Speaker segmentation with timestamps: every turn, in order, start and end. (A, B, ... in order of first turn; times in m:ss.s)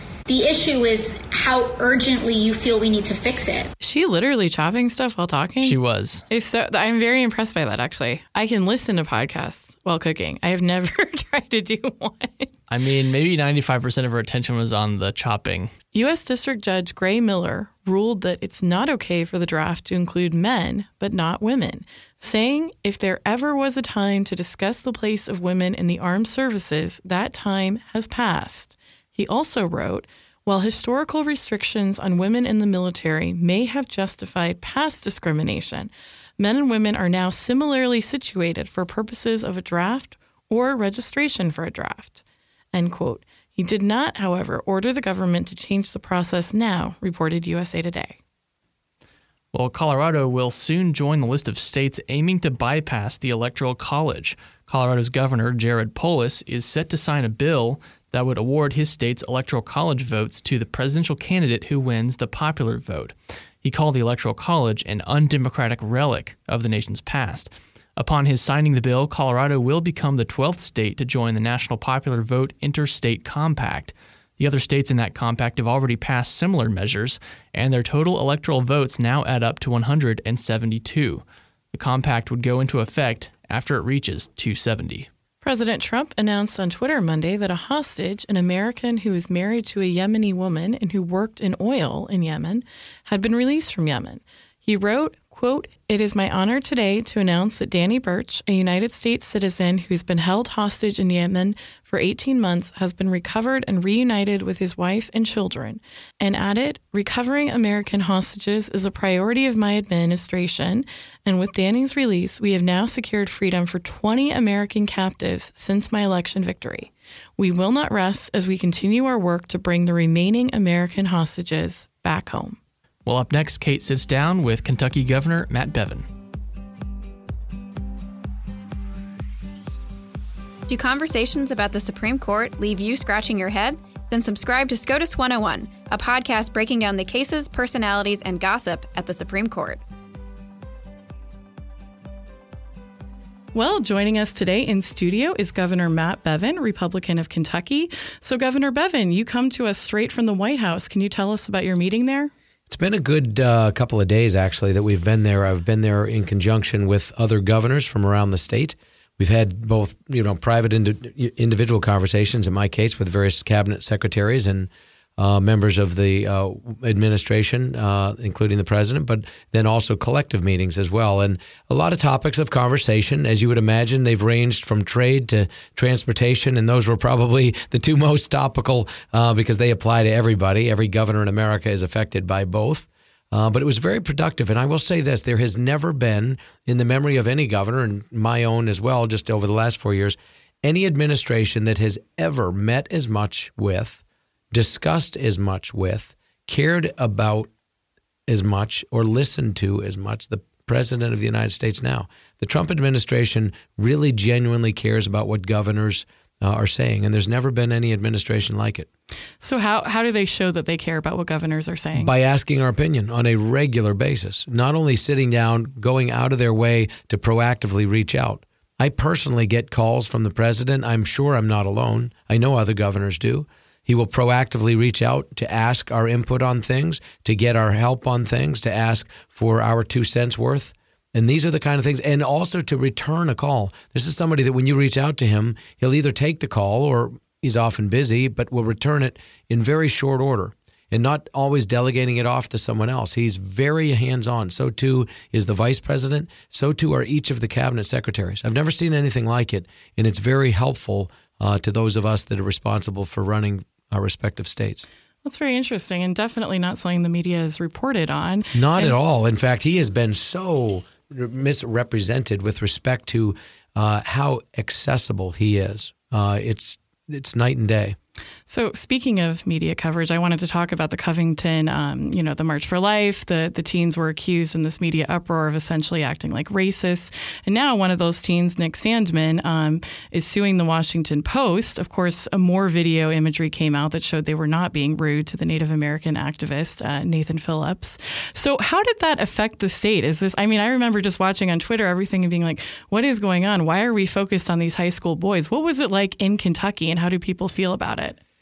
0:00.3-0:03.7 A
0:03.8-0:05.8 B
0:05.6-0:06.2 C
0:06.3-0:12.5 B
0:12.7-0:15.7 C
0:15.9-0:48.2 B
0:49.5-1:25.1 C
1:25.4-2:02.6 B
2:03.0-2:06.0 C
2:10.7-2:19.8 D
2:23.5-2:32.3 B
2:32.7-3:17.5 E
3:18.3-3:28.9 E
3:29.4-3:32.1 B
3:31.9-4:14.9 E
4:15.2-4:19.0 B
4:18.5-4:28.0 E
4:28.5-4:58.2 B